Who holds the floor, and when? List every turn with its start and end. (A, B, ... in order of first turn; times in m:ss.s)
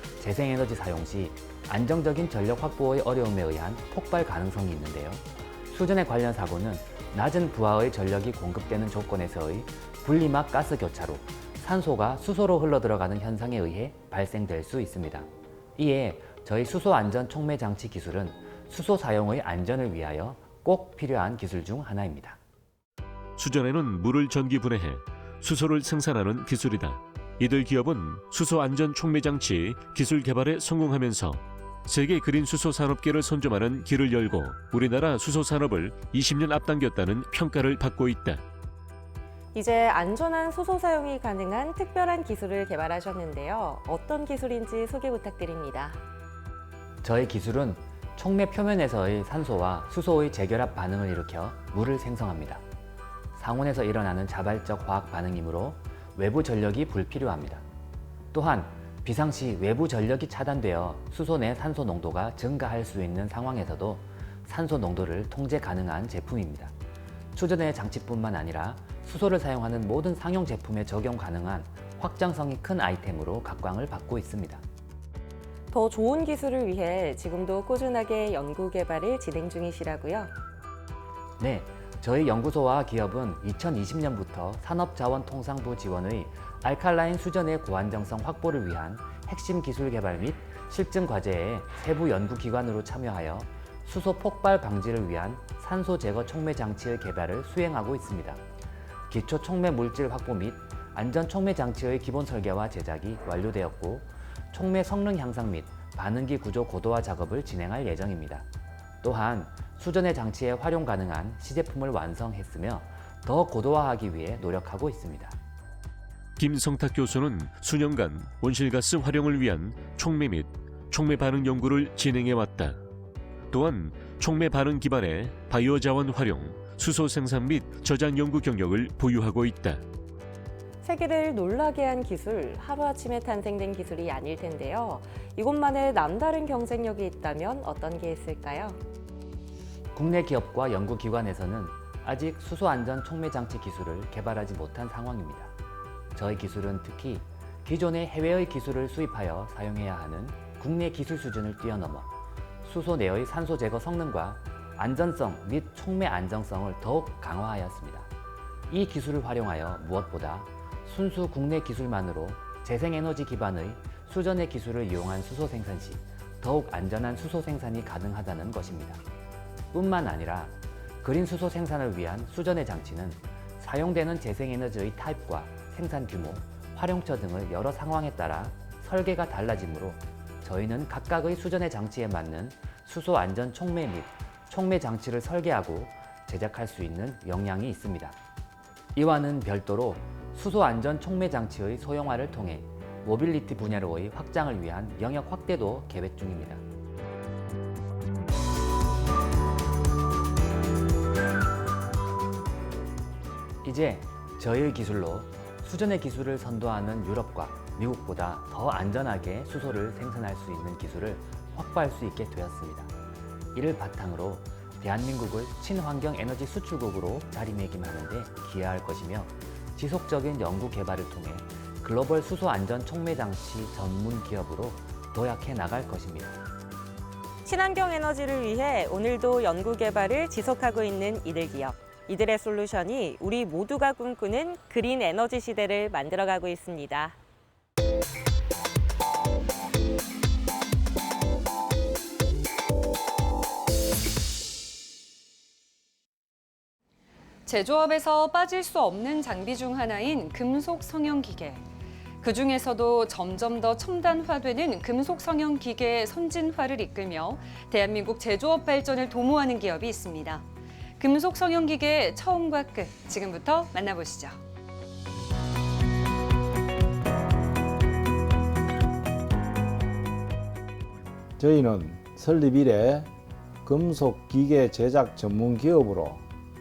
0:00.2-0:22.4 A
0:23.4-0:38.4 B
0:39.5-0:46.0 C
0:47.0-0:52.6 A
0:53.3-0:57.6 A
0:58.3-1:06.7 A
1:07.3-1:14.6 A
1:15.7-1:20.3 C
1:21.4-1:38.4 A
1:39.1-1:48.4 A
1:49.0-1:55.4 A
1:56.4-2:02.8 B
2:03.5-2:09.8 B
2:10.8-2:18.8 C
2:19.9-2:25.5 A
2:26.2-2:32.1 A
2:32.6-2:38.1 A
2:38.7-2:49.0 A
2:49.7-3:08.2 A
3:08.9-3:16.6 A
3:23.6-3:32.9 A
3:33.5-3:46.4 A
3:47.4-3:57.2 C
4:07.4-4:11.7 D
4:12.2-4:20.5 D
4:21.0-4:24.4 D
4:31.4-4:33.1 E
4:33.6-4:36.2 E